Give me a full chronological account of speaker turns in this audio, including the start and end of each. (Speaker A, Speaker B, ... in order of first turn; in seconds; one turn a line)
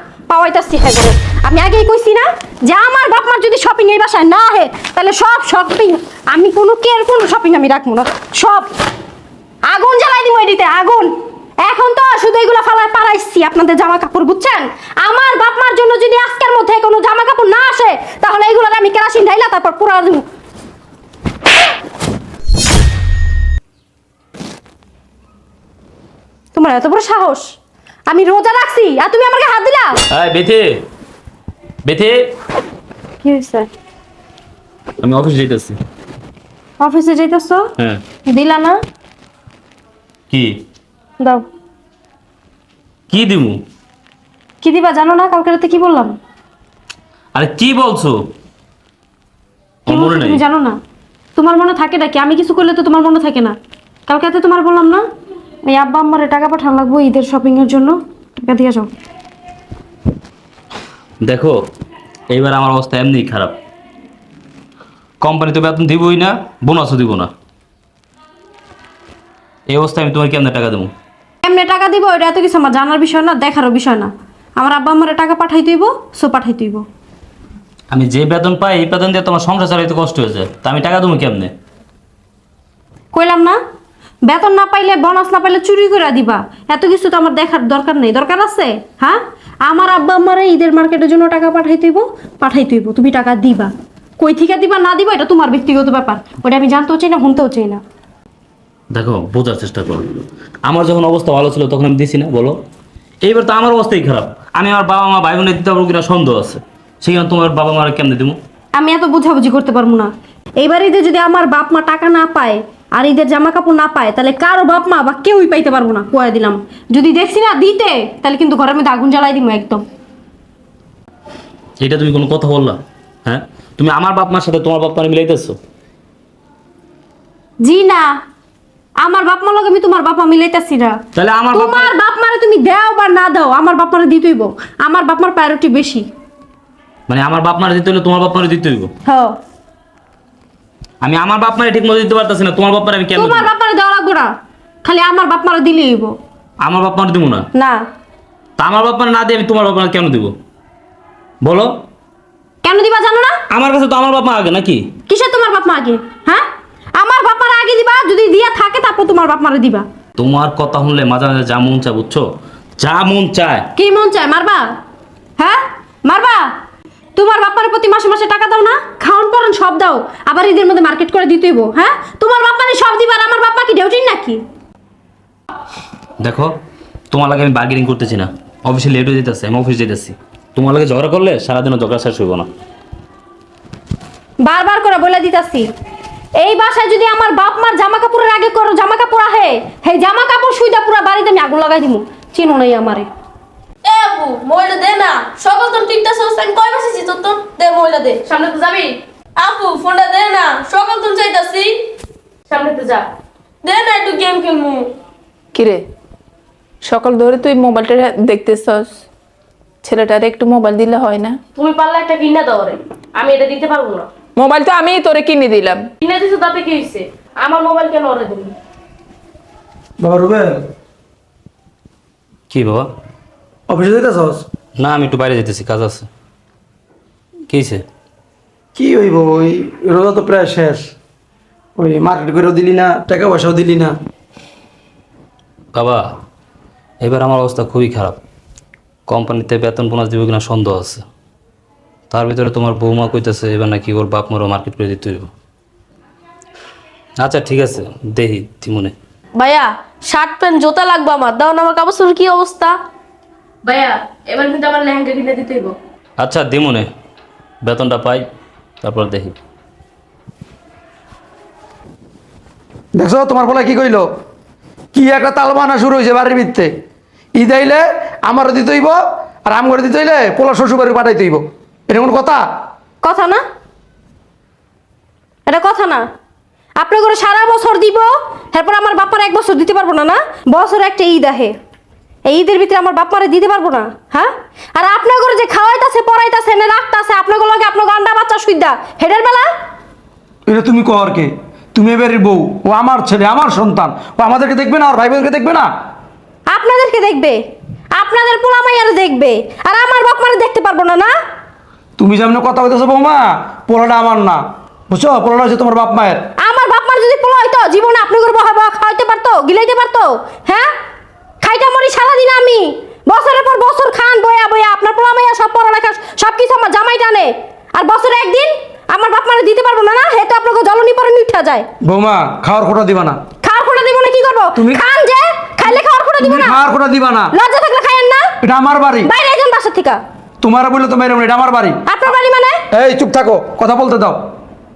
Speaker A: 0.3-8.7
Speaker A: 9.7-11.1
Speaker A: 11.6-20.2
Speaker A: 26.5-27.5
Speaker A: 28.1-30.0
Speaker B: 30.1-30.8
Speaker B: 31.9-32.2
Speaker A: 33.2-33.7
Speaker B: 35.0-35.8
Speaker A: 36.8-37.7
Speaker A: 38.3-38.8
Speaker B: 40.3-40.6
Speaker B: 43.1-43.6
Speaker A: 44.6-46.2
Speaker B: 47.4-48.2
Speaker B: 49.9-50.4
Speaker A: 49.9-50.8
Speaker A: 51.4-53.6
Speaker A: 54.1-55.0
Speaker A: 55.6-58.9
Speaker B: 61.2-61.6
Speaker B: 62.3-63.6
Speaker B: 65.2-67.3
Speaker B: 69.7-70.9
Speaker A: 71.4-76.8
Speaker B: 77.9-81.5
Speaker A: 83.1-83.6
Speaker A: 84.3-97.8
Speaker B: 98.9-102.6
Speaker B: 103.2-108.4
Speaker A: 108.7-110.1
Speaker A: 110.6-119.8
Speaker B: 121.8-125.6
Speaker A: 127.6-128.2
Speaker A: 129.0-131.0
Speaker B: 131.2-131.9
Speaker A: 131.5-136.1
Speaker B: 137.1-138.9
Speaker A: 139.1-139.3
Speaker B: 141.0-143.5
Speaker A: 143.2-144.3
Speaker A: 144.8-146.2
Speaker B: 146.6-147.5
Speaker A: 147.6-147.8
Speaker B: 148.6-150.3
Speaker B: 151.4-151.7
Speaker A: 152.6-153.4
Speaker B: 153.5-154.9
Speaker A: 155.1-156.4
Speaker A: 157.0-159.8
Speaker B: 160.2-162.2
Speaker B: 162.8-163.7
Speaker A: 163.8-164.7
Speaker A: 165.4-166.5
Speaker A: 167.2-174.4
Speaker B: 176.2-176.5
Speaker B: 177.1-182.5
Speaker A: 184.4-185.7
Speaker A: 186.4-193.1
Speaker C: 193.8-201.8
Speaker C: 202.5-203.1
Speaker C: 203.6-204.9
Speaker D: 205.6-205.9
Speaker D: 206.8-208.9
Speaker D: 209.8-211.4
Speaker C: 211.5-214.1
Speaker D: 214.4-215.9
Speaker C: 216.0-218.6
Speaker E: 220.0-220.6
Speaker B: 222.5-222.9
Speaker E: 223.7-224.4
Speaker B: 224.8-226.1
Speaker B: 227.5-227.8
Speaker E: 228.8-230.9
Speaker E: 231.8-233.9
Speaker B: 235.7-236.1
Speaker B: 237.0-238.2
Speaker B: 239.1-241.0
Speaker B: 242.1-245.3
Speaker B: 247.2-248.9
Speaker C: 249.4-252.8
Speaker C: 253.6-255.8
Speaker B: 256.2-256.9
Speaker B: 257.6-258.2
Speaker B: 258.8-259.4
Speaker E: 263.0-264.1
Speaker E: 264.9-266.7
Speaker E: 267.4-272.4
Speaker A: 273.0-273.4
Speaker A: 275.5-276.0
Speaker A: 276.8-281.5
Speaker A: 282.3-289.5
Speaker E: 290.5-295.7
Speaker A: 296.5-297.4
Speaker A: 298.0-301.1
Speaker E: 302.0-306.2
Speaker A: 306.4-310.7
Speaker A: 311.4-321.7
Speaker E: 321.8-323.2
Speaker A: 323.4-326.6
Speaker E: 324.6-324.9
Speaker E: 326.2-327.3
Speaker A: 327.3-328.3
Speaker E: 328.4-329.1
Speaker A: 329.0-330.0
Speaker E: 330.4-331.8
Speaker A: 331.9-332.6
Speaker E: 332.7-334.2